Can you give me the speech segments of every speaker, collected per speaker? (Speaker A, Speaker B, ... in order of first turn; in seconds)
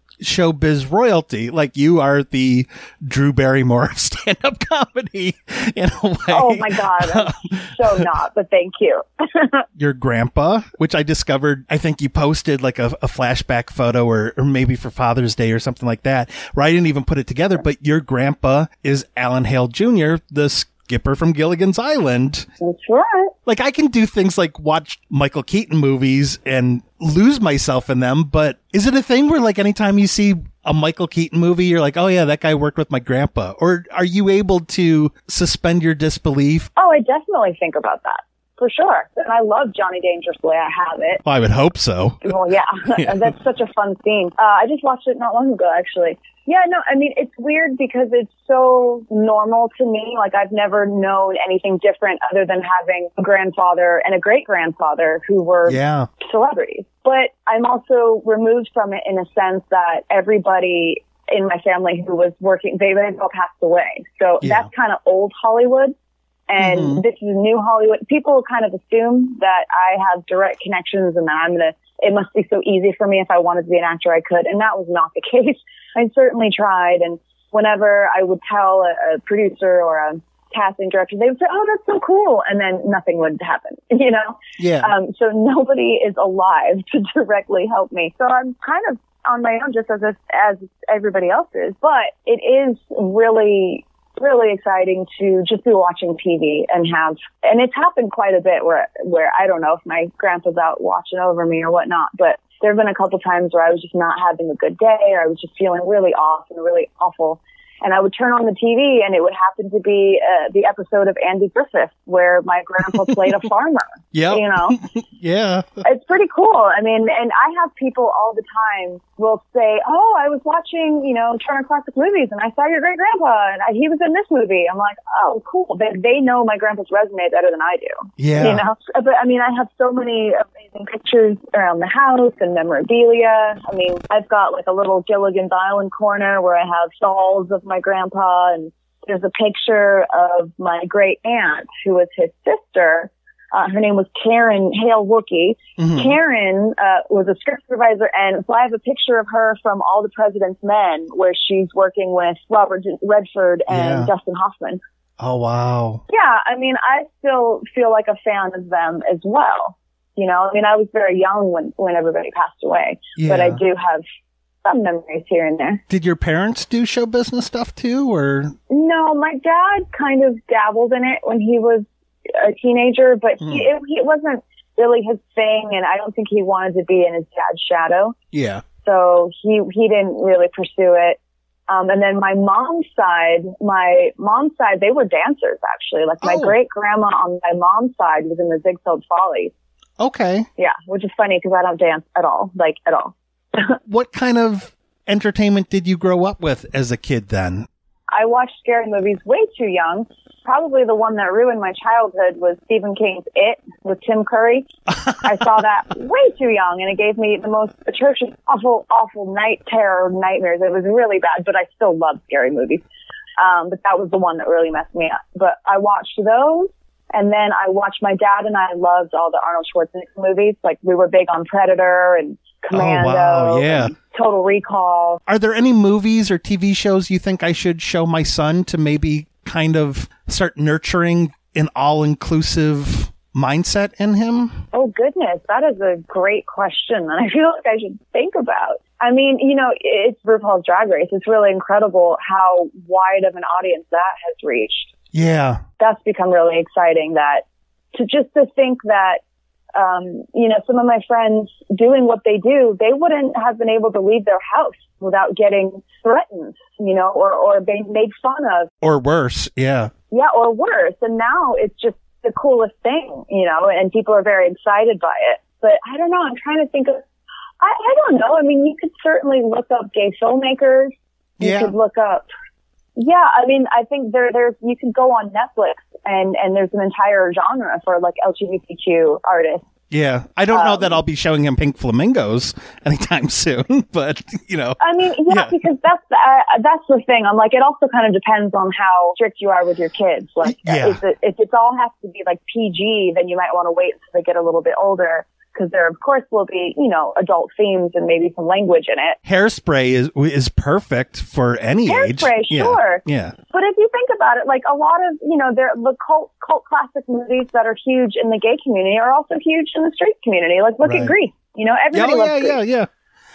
Speaker A: 0.2-8.0, 9.8-22.5, 23.5-36.7, 41.2-42.3, 55.6-56.1, 64.4-64.7, 66.6-67.0, 84.6-84.9, 114.1-115.7, 128.2-128.6, 145.8-146.2, 153.7-154.1, 155.2-156.0, 163.2-163.6, 165.9-168.5, 173.4-173.7, 178.3-178.6, 186.2-186.5, 190.0-190.5, 193.9-197.7, 222.7-223.9, 225.3-234.6, 245.1-245.6, 258.8-259.9, 271.4-271.7, 279.9-285.6, 290.4-291.0, 299.2-303.3, 310.8-311.1, 311.9-312.9
Speaker B: 6.3-9.6, 22.6-23.3, 36.8-41.2, 42.2-65.9, 66.5-114.8, 115.8-154.8, 156.1-164.0, 164.6-165.8, 168.7-178.1, 178.8-189.5, 190.6-193.7, 198.1-204.7, 205.2-212.8, 213.4-225.2, 234.7-244.9, 245.8-249.2, 249.7-258.7, 260.1-267.0, 267.6-272.2, 272.9-279.6, 280.5-281.0, 284.8-299.2, 301.9-312.6